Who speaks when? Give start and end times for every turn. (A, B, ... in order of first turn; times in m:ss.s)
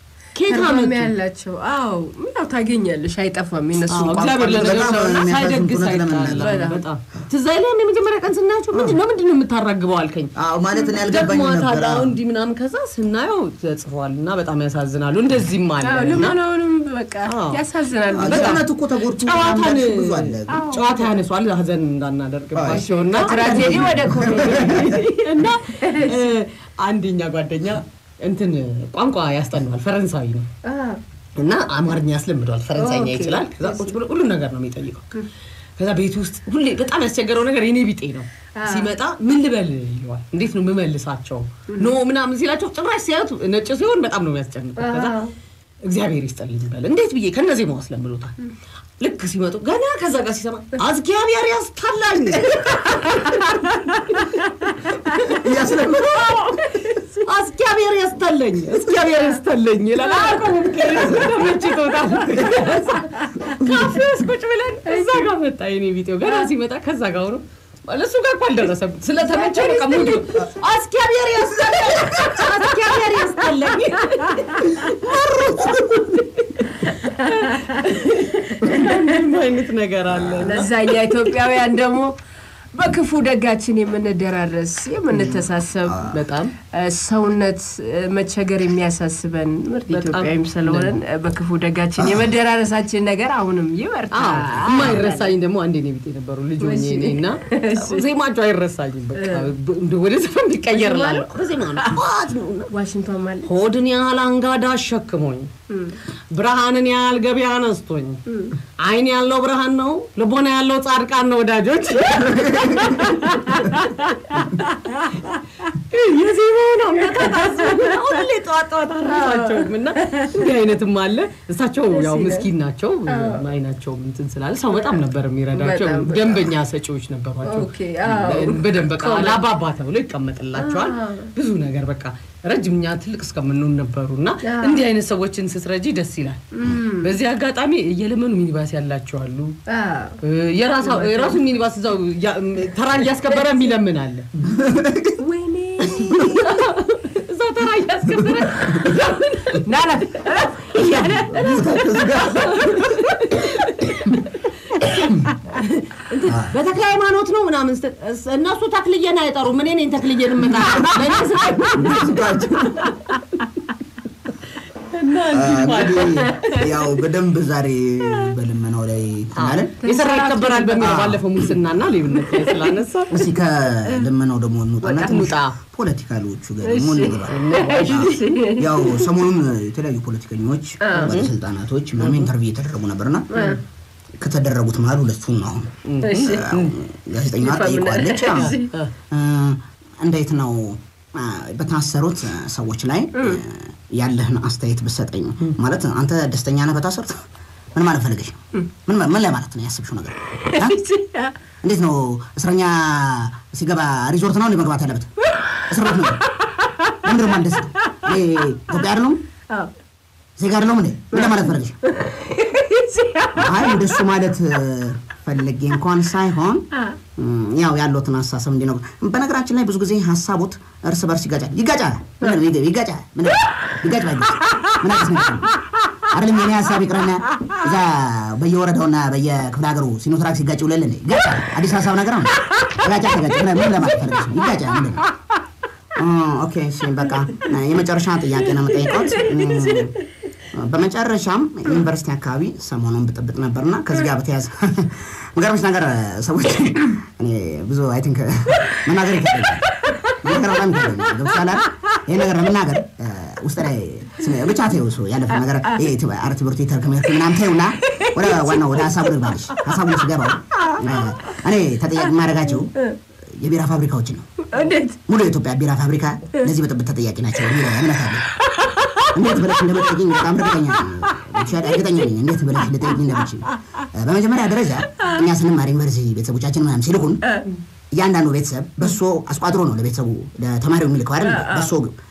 0:00.3-0:01.1 A
0:00.5-0:04.9 B
0:03.9-0:06.6 C
0:03.9-0:10.3 A
0:06.4-0:06.8 B
0:08.7-0:09.0 C
0:10.3-0:12.2 C
0:11.0-0:16.4 A
0:15.8-0:18.6 B
0:17.2-0:17.6 A
0:18.1-0:20.7 C
0:18.2-0:23.8 A
0:20.5-0:21.1 B
0:22.5-0:25.0 C
0:22.8-0:26.3 B
0:24.4-0:30.5 A
0:30.6-0:31.0 B
0:31.4-0:35.1 A
0:32.7-0:33.9 B
0:35.8-0:45.3 A
0:38.5-0:38.9 B
0:41.7-0:42.0 B
0:44.8-0:45.3 B
0:45.8-0:48.4 A
0:49.0-0:54.4 A
0:52.9-0:55.4 B
0:55.2-0:56.4 C
0:56.2-0:56.5 A
0:56.2-0:57.3 B
0:57.2-1:20.7 A
0:58.9-0:59.2 B
1:00.0-1:02.6 B
1:03.2-1:03.5 B
1:04.9-1:05.2 B
1:09.2-1:10.4 B
1:15.3-1:16.0 C
1:16.8-1:18.0 B
1:18.6-1:19.2 B
1:20.1-1:20.6 C
1:20.4-1:22.1 B
1:22.7-1:26.0 B
1:25.1-1:26.2 C
1:26.1-1:26.5 A
1:26.7-1:35.4 B
1:29.9-1:31.0 A
1:32.0-1:32.3 C
1:34.1-1:42.7 A
1:36.6-1:38.0 B
1:39.1-1:39.5 B
1:40.7-1:42.0 B
1:42.7-1:43.5 B
1:43.4-1:45.5 A
1:45.7-1:46.0 B
1:46.3-1:48.2 A
1:48.3-1:48.5 B
1:48.8-2:19.6 A
1:52.3-1:52.9 C
1:52.8-1:53.8 B
1:54.6-1:55.3 B
1:57.1-1:58.0 B
1:59.0-2:00.5 B
2:01.9-2:02.5 B
2:03.1-2:03.4 B
2:04.8-2:05.0 B
2:05.5-2:06.6 B
2:07.4-2:09.4 B
2:10.5-2:11.3 B
2:14.4-2:14.8 B
2:16.5-2:17.2 B
2:19.7-2:20.2 B
2:20.2-2:24.3 A
2:20.8-2:21.4 B
2:24.3-2:25.2 C
2:25.2-2:26.6 B
2:25.8-2:26.4 C
2:26.2-2:29.6 A
2:28.0-2:29.0 C
2:28.6-2:34.0 B
2:30.8-2:32.8 C
2:32.2-2:33.9 A
2:34.7-2:42.2 A
2:34.9-2:35.3 C
2:36.2-2:36.5 C
2:41.7-2:42.9 C
2:44.9-2:46.5 A
2:45.3-2:49.7 C
2:46.4-2:46.7 B
2:49.4-2:53.2 A
2:49.8-2:51.0 B
2:50.8-2:51.5 C
2:52.1-2:52.8 B
2:53.1-3:03.3 C
2:54.8-2:55.3 B
2:54.9-2:55.6 A
2:56.6-2:59.1 B
2:57.2-2:58.1 A
3:00.8-3:01.2 B
3:00.9-3:01.3 A
3:02.0-3:02.3 A
3:03.3-3:03.6 B
3:03.3-3:03.6 A
3:04.2-3:08.6 C
3:05.8-3:06.8 A
3:06.0-3:06.5 B
3:07.3-3:08.7 B
3:08.2-3:08.9 A
3:09.1-3:17.2 C
3:13.2-3:13.4 B
3:17.7-3:20.8 C
3:20.4-3:21.3 B
3:21.6-3:25.1 C
3:25.4-3:26.9 B
3:25.7-3:26.2 C
3:27.0-3:29.2 C
3:30.4-3:31.8 C
3:31.1-3:33.9 B
3:33.4-3:45.5 C
3:46.0-3:55.0 C
3:56.0-4:00.0 C
3:59.3-3:59.6 B
4:00.5-4:24.4 C
4:17.8-4:19.1 B
4:20.5-4:21.3 B
4:24.5-4:25.0 B
4:25.1-4:28.3 C
4:28.5-4:29.1 B
4:29.1-4:37.2 C
4:37.2-4:37.5 B
4:37.9-4:42.0 C
4:41.2-4:41.7 B